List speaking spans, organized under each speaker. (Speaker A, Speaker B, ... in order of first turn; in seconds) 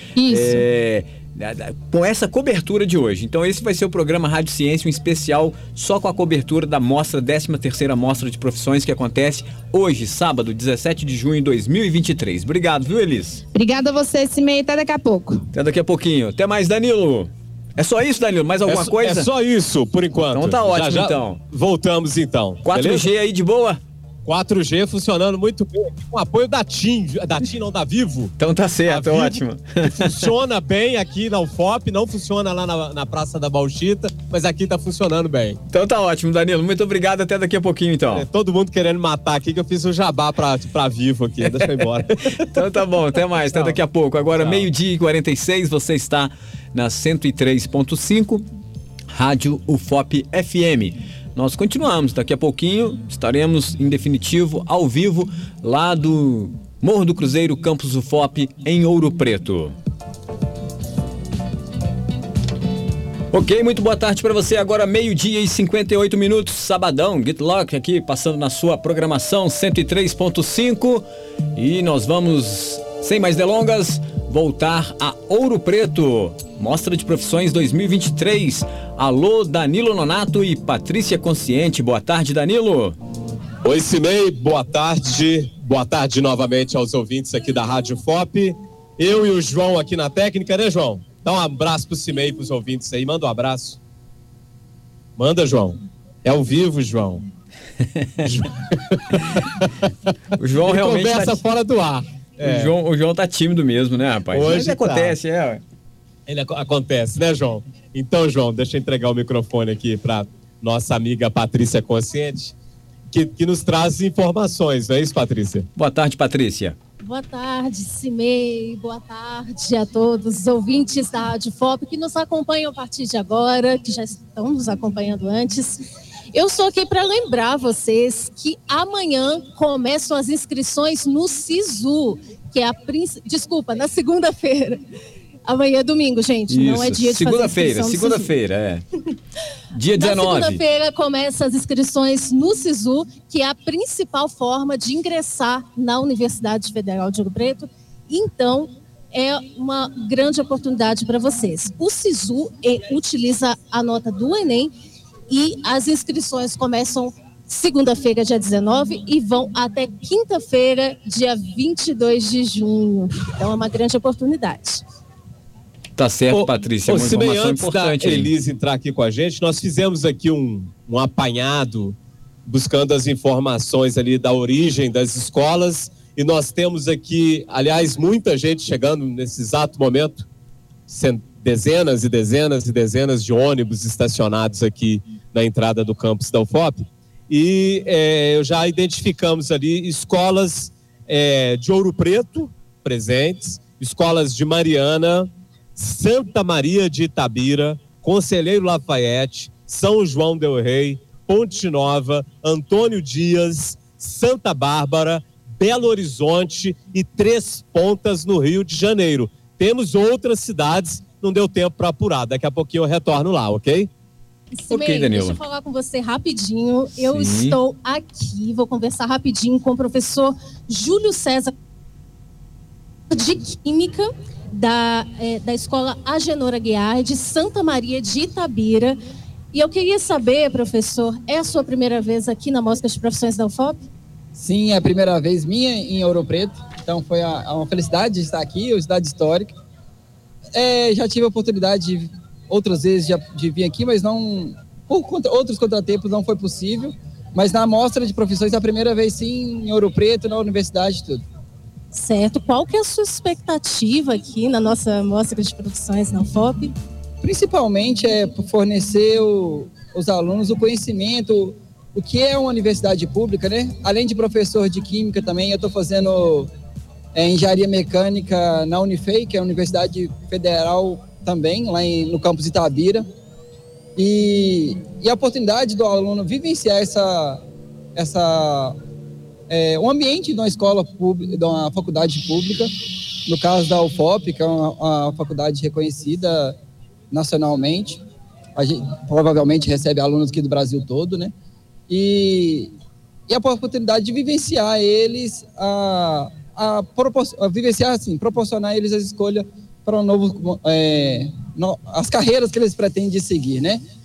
Speaker A: 0.2-0.6, 13.5-15.4
Speaker B: 0.3-13.4, 15.5-19.3, 20.3-21.4, 22.6-23.8, 28.4-30.3, 35.7-38.3, 41.4-41.9, 42.5-48.5, 49.1-59.8, 63.3-83.0, 100.4-101.4, 102.4-105.6, 115.8-116.8, 136.5-138.8, 139.8-140.6, 166.0-168.3, 214.7-215.4, 217.1-217.6
Speaker C: 18.7-23.1, 24.2-28.3, 28.9-35.6, 38.1-42.6, 43.5-43.8, 44.3-44.7, 83.6-93.8, 95.2-97.2, 98.2-99.9, 100.7-102.7, 104.3-105.2, 106.3-112.5, 113.1-115.7, 166.3-180.2, 180.9-213.9
Speaker D: 117.0-125.8, 126.3-134.8, 135.5-138.3, 140.0-154.7, 155.3-164.8, 214.5-221.5, 223.1-229.0, 229.5-233.8, 251.9-256.7
Speaker E: 234.3-239.6, 240.5-251.3, 257.2-266.5, 267.1-273.1, 274.0-277.4, 277.9-278.8, 279.5-282.7, 283.3-286.6, 287.1-288.0, 288.6-291.3, 291.9-292.7, 293.3-303.8